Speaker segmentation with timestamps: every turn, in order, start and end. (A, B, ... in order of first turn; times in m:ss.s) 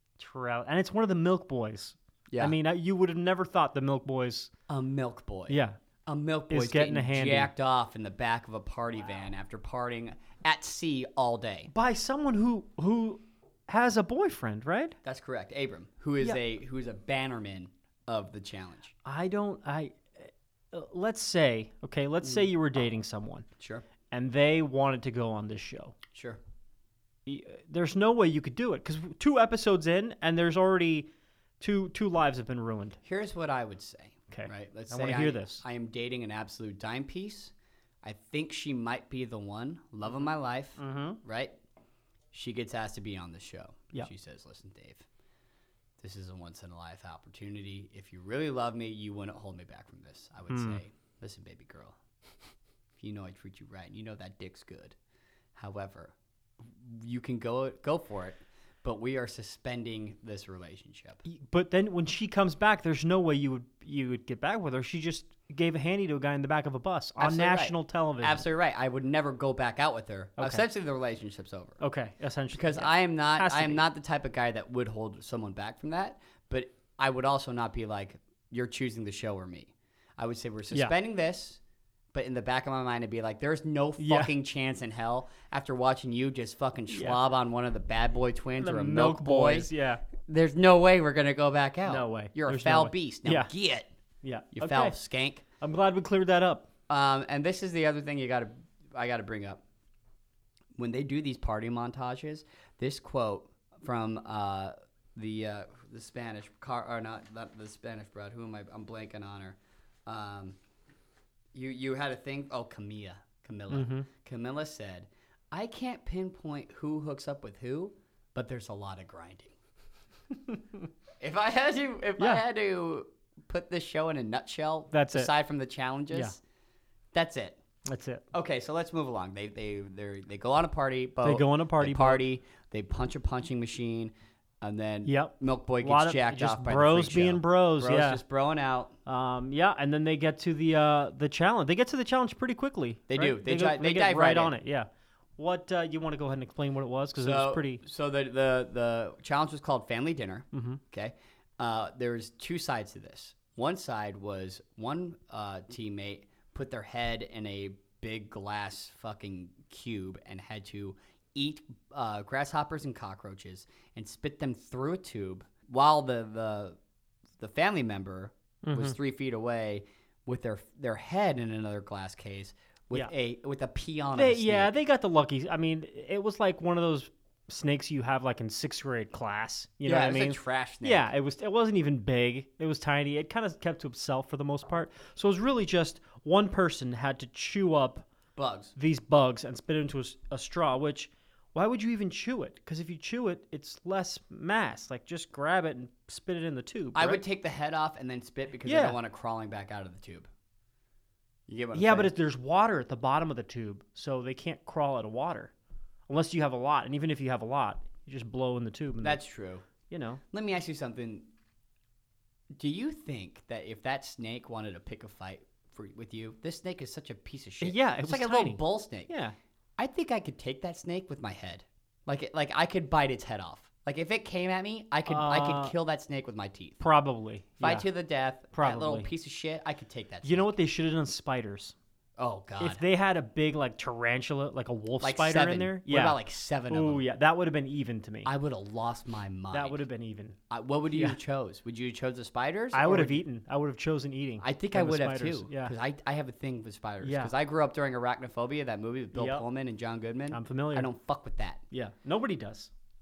0:00.2-0:04.5 A
0:02.3-0:02.6 B
0:04.7-0:11.7 B
0:05.5-0:05.8 A
0:06.5-0:07.5 A
0:11.7-0:15.0 A
0:15.0-0:18.9 B
0:19.0-0:23.5 A
0:22.2-0:22.5 B
0:23.6-0:23.8 B
0:24.1-0:26.0 A
0:26.1-0:26.4 B
0:27.3-0:31.1 A
0:31.6-0:33.0 A
0:33.0-0:41.6 B
0:34.3-0:35.6 A
0:40.8-0:41.2 A
0:42.3-0:45.0 B
0:46.0-0:52.0 B
0:50.5-0:50.8 A
0:53.0-0:55.0 B
0:55.6-0:56.1 B
0:56.6-1:01.2 B
1:01.2-1:08.4 A
1:07.2-1:11.8 B
1:10.4-1:10.7 A
1:11.8-1:13.8 A
1:12.5-1:21.6 B
1:22.1-1:33.9 B
1:24.0-1:24.3 A
1:26.9-1:27.2 A
1:28.6-1:30.0 A
1:31.9-1:33.5 A
1:34.2-1:35.0 A
1:34.5-1:35.4 B
1:35.6-1:36.7 A
1:36.9-1:39.6 B
1:40.8-1:50.6 B
1:51.5-1:59.6 B
1:53.7-1:54.1 A
2:01.2-2:06.4 B
2:04.9-2:05.3 A
2:07.1-2:07.6 B
2:07.8-2:08.2 A
2:08.3-2:19.0 B
2:11.2-2:12.2 A
2:15.0-2:18.2 A
2:19.1-2:27.8 A
2:23.1-2:24.6 B
2:27.2-2:46.8 B
2:30.5-2:30.8 A
2:47.4-2:54.7 B
2:48.6-2:49.0 A
2:54.1-3:08.1 A
2:59.8-3:01.1 B
3:08.4-3:08.8 B
3:08.8-3:17.2 A
3:17.0-3:20.3 B
3:18.7-3:19.0 A
3:21.5-3:22.1 B
3:21.7-3:25.5 A
3:26.1-3:29.2 A
3:29.0-3:29.6 B
3:29.9-3:30.2 A
3:30.3-3:31.3 B
3:32.6-3:39.1 B
3:37.6-3:39.4 A
3:39.8-3:46.9 B
3:45.1-3:45.8 A
3:46.8-3:47.9 A
3:47.6-3:50.5 B
3:48.5-3:49.1 A
3:50.2-3:51.8 A
3:52.2-3:52.8 B
3:52.6-3:58.3 A
3:55.0-3:57.0 B
3:58.2-3:59.8 B
3:59.5-4:00.4 A
4:00.5-4:03.2 B
4:00.9-4:01.2 A
4:02.7-4:05.7 A
4:04.4-4:11.6 B
4:07.0-4:07.3 A
4:09.2-4:09.4 A
4:10.3-4:10.9 A
4:11.7-4:12.7 A